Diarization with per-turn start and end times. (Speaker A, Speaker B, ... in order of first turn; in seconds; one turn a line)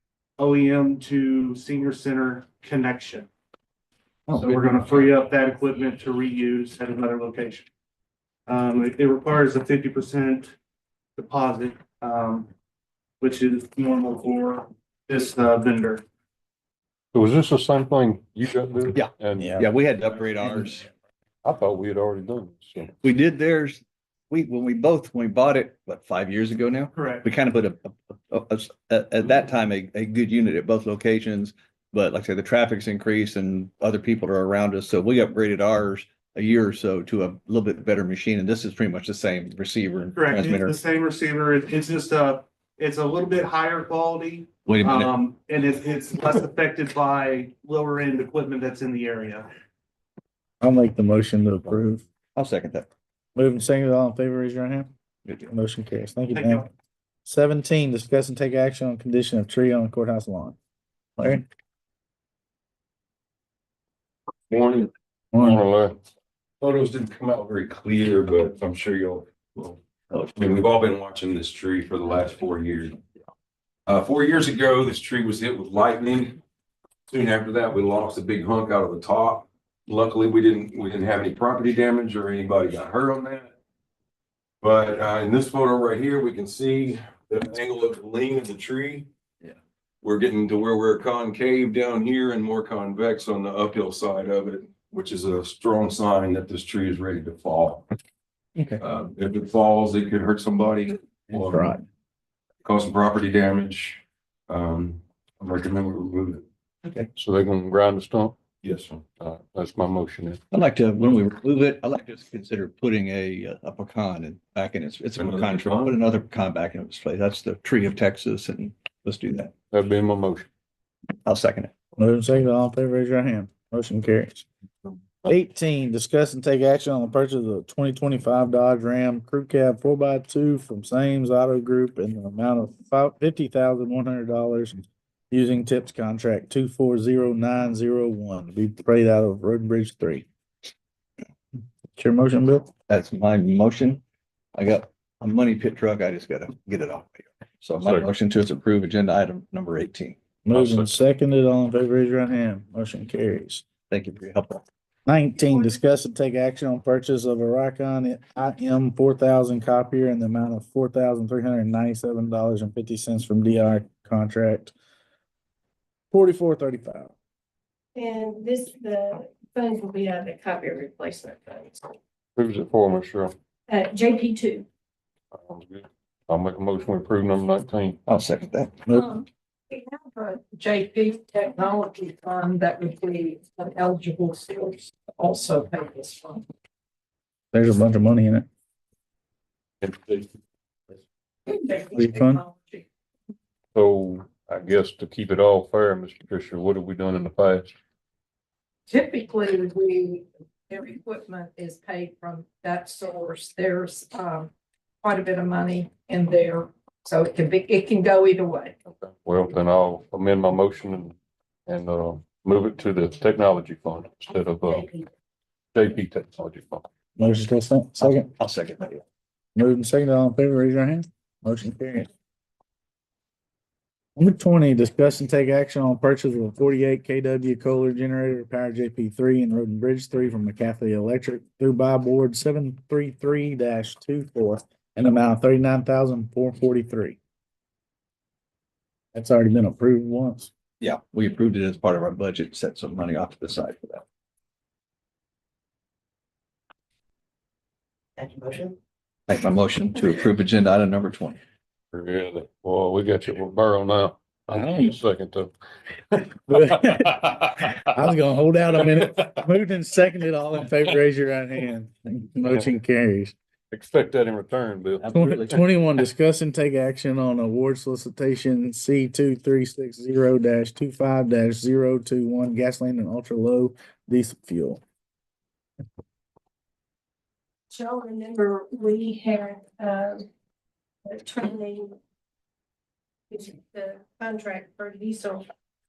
Speaker A: 0.4-3.3
Speaker B: 4.3-5.0
Speaker A: 4.3-7.7
Speaker A: 8.5-10.5
Speaker A: 11.2-12.5
Speaker A: 13.2-16.0
Speaker C: 17.1-19.6
Speaker B: 18.9-20.9
Speaker D: 19.4-19.6
Speaker C: 21.4-22.9
Speaker B: 23.0-40.8
Speaker A: 27.0-27.2
Speaker A: 40.1-49.5
Speaker B: 44.7-45.1
Speaker D: 50.6-52.0
Speaker B: 52.4-52.9
Speaker D: 53.4-54.9
Speaker B: 55.2-55.5
Speaker D: 55.5-56.7
Speaker A: 56.3-56.7
Speaker D: 57.2-60.6
Speaker D: 61.2-61.4
Speaker E: 64.5-64.9
Speaker D: 65.3-65.6
Speaker C: 65.3-66.0
Speaker E: 66.6-69.8
Speaker E: 70.4-73.0
Speaker E: 73.9-76.4
Speaker E: 77.1-83.5
Speaker E: 84.6-89.1
Speaker E: 90.0-97.9
Speaker B: 98.6-98.8
Speaker E: 98.8-101.8
Speaker D: 101.5-101.8
Speaker E: 102.6-106.5
Speaker C: 107.2-108.4
Speaker E: 108.6-109.0
Speaker C: 109.2-110.4
Speaker B: 110.5-119.5
Speaker E: 115.2-115.9
Speaker C: 119.7-120.5
Speaker B: 121.2-121.7
Speaker D: 122.0-124.5
Speaker D: 125.2-134.8
Speaker D: 135.3-140.3
Speaker D: 141.9-142.7
Speaker B: 142.9-144.0
Speaker B: 144.5-150.2
Speaker C: 147.8-148.1
Speaker D: 150.4-153.6
Speaker C: 150.5-150.8
Speaker B: 153.9-154.6
Speaker D: 155.1-164.7
Speaker D: 166.1-167.1
Speaker F: 167.9-171.9
Speaker C: 172.3-173.3
Speaker F: 173.7-174.7
Speaker C: 175.3-178.0
Speaker B: 178.1-178.9
Speaker G: 178.9-186.4
Speaker D: 187.5-188.4
Speaker C: 189.8-190.3
Speaker G: 191.5-192.8
Speaker D: 191.9-192.4
Speaker C: 193.7-197.7
Speaker G: 198.9-204.5
Speaker G: 205.0-208.7
Speaker C: 208.9-211.1
Speaker C: 211.7-214.9
Speaker G: 214.7-215.0
Speaker C: 215.7-216.8
Speaker D: 217.2-218.3
Speaker B: 218.0-219.0
Speaker D: 219.5-222.1
Speaker D: 224.2-237.2
Speaker D: 239.1-240.5
Speaker B: 240.8-244.0
Speaker B: 249.3-251.4
Speaker C: 251.9-255.5
Speaker C: 256.1-257.7
Speaker D: 256.5-263.4
Speaker C: 263.7-265.6
Speaker B: 265.0-265.6
Speaker D: 265.1-274.8
Speaker F: 277.7-280.2
Speaker F: 281.1-282.0
Speaker F: 283.3-285.5